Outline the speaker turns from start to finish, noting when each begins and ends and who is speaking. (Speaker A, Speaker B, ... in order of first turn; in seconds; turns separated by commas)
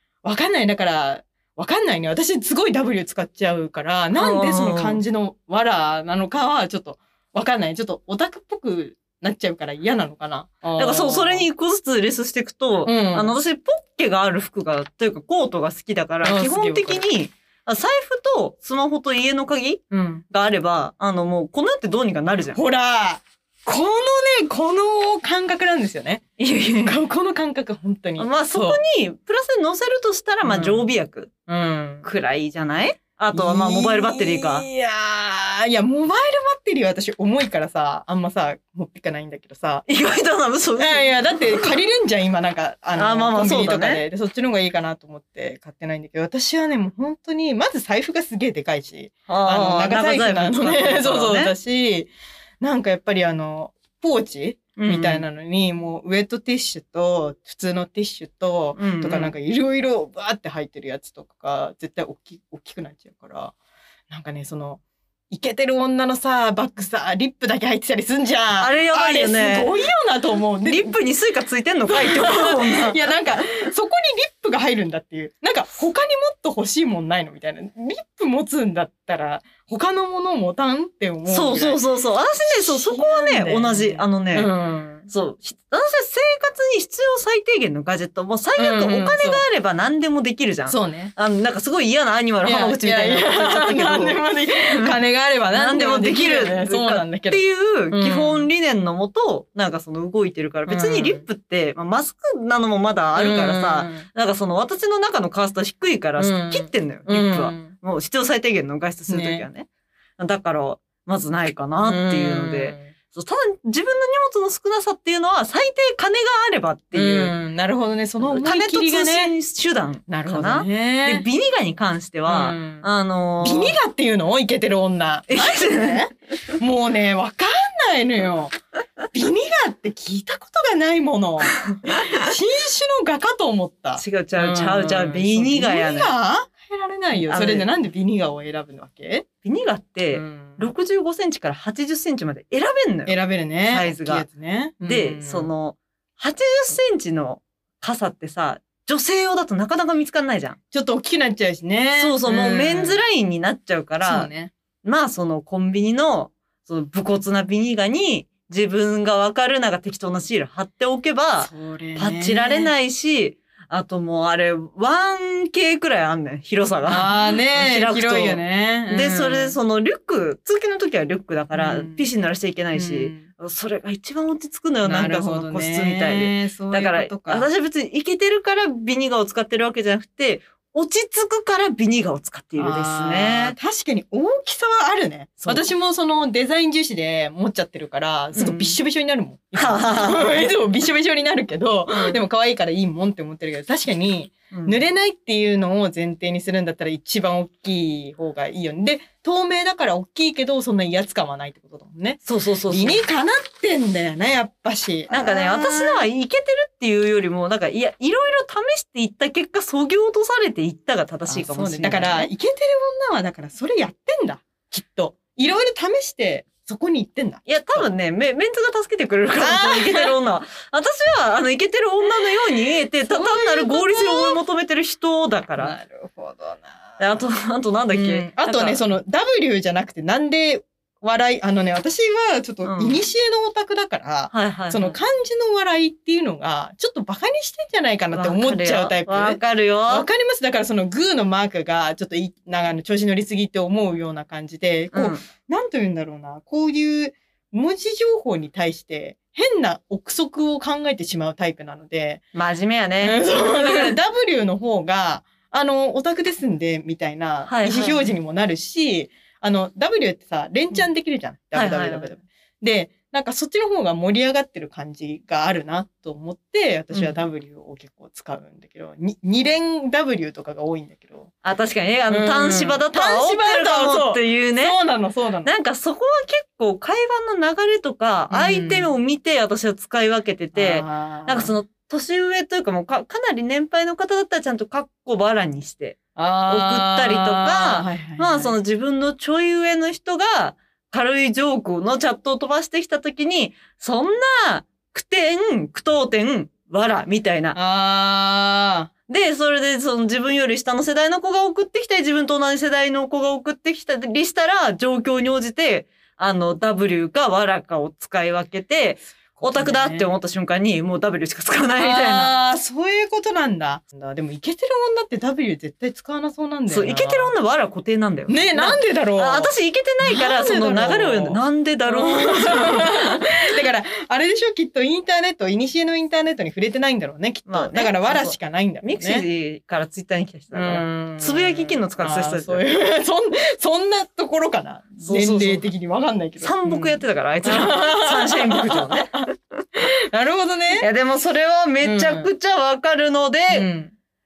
Speaker A: 0.2-11.4, Speaker B: 4.2-5.0, Speaker B: 10.8-22.6, Speaker A: 12.8-13.3, Speaker A: 16.2-17.0, Speaker A: 19.9-20.2, Speaker A: 22.5-26.2, Speaker B: 26.4-27.0, Speaker A: 26.8-28.8, Speaker B: 28.2-31.3, Speaker A: 30.4-30.9, Speaker A: 31.5-32.1, Speaker B: 32.0-34.7, Speaker A: 33.3-39.9, Speaker B: 39.9-41.7, Speaker A: 40.8-63.5, Speaker B: 43.0-44.0, Speaker B: 49.3-51.5, Speaker B: 54.8-55.2, Speaker B: 58.8-59.3, Speaker A: 64.1-70.9, Speaker B: 68.6-69.7, Speaker B: 70.7-73.0, Speaker A: 71.9-81.8, Speaker B: 81.3-84.5, Speaker A: 82.4-85.1, Speaker B: 85.1-94.2, Speaker A: 88.6-89.4, Speaker A: 90.7-91.1, Speaker A: 92.4-98.5, Speaker B: 95.5-117.3, Speaker A: 100.7-101.2, Speaker A: 103.2-104.0, Speaker A: 106.2-107.7, Speaker A: 109.1-109.5, Speaker A: 111.8-112.9, Speaker A: 116.9-119.3, Speaker B: 118.2-123.8, Speaker A: 120.1-121.2, Speaker A: 122.3-122.8, Speaker A: 123.4-128.5, Speaker B: 125.3-126.0, Speaker A: 129.1-139.2, Speaker B: 134.0-136.1, Speaker B: 137.2-137.7, Speaker B: 139.4-144.2, Speaker A: 140.1-140.7, Speaker A: 143.1-145.5, Speaker B: 144.8-150.6, Speaker A: 150.7-153.0, Speaker B: 152.0-154.3, Speaker A: 154.0-154.5, Speaker B: 154.8-183.5, Speaker A: 161.4-162.7, Speaker A: 166.9-169.6, Speaker A: 171.5-172.0, Speaker A: 172.7-173.3, Speaker A: 174.8-177.5, Speaker A: 182.6-206.1, Speaker B: 188.3-188.8, Speaker B: 189.6-190.5, Speaker B: 191.9-192.2, Speaker B: 194.5-194.8, Speaker B: 202.2-203.0, Speaker B: 205.1-212.3, Speaker A: 211.3-217.9, Speaker B: 217.4-225.8, Speaker A: 219.4-220.2, Speaker A: 223.0-224.4, Speaker A: 225.6-227.2, Speaker B: 227.0-228.8, Speaker A: 227.9-252.2, Speaker B: 232.6-233.0, Speaker B: 234.3-235.0, Speaker B: 238.1-240.1, Speaker B: 244.9-245.2, Speaker B: 252.3-253.9, Speaker A: 253.0-271.3, Speaker B: 257.5-258.1, Speaker B: 261.5-262.1, Speaker B: 266.9-267.2, Speaker B: 271.4-274.8, Speaker A: 272.1-275.5, Speaker B: 275.4-297.6, Speaker A: 278.3-278.9, Speaker A: 280.5-281.5, Speaker A: 286.1-288.5, Speaker A: 297.5-298.9, Speaker B: 299.1-312.3, Speaker A: 309.3-310.1, Speaker A: 311.8-317.3, Speaker B: 316.7-323.3, Speaker A: 318.3-329.2, Speaker B: 327.5-332.6, Speaker A: 330.5-340.9, Speaker B: 335.0-335.6, Speaker B: 336.4-339.2, Speaker B: 340.8-343.7, Speaker A: 341.8-342.3, Speaker A: 343.5-343.9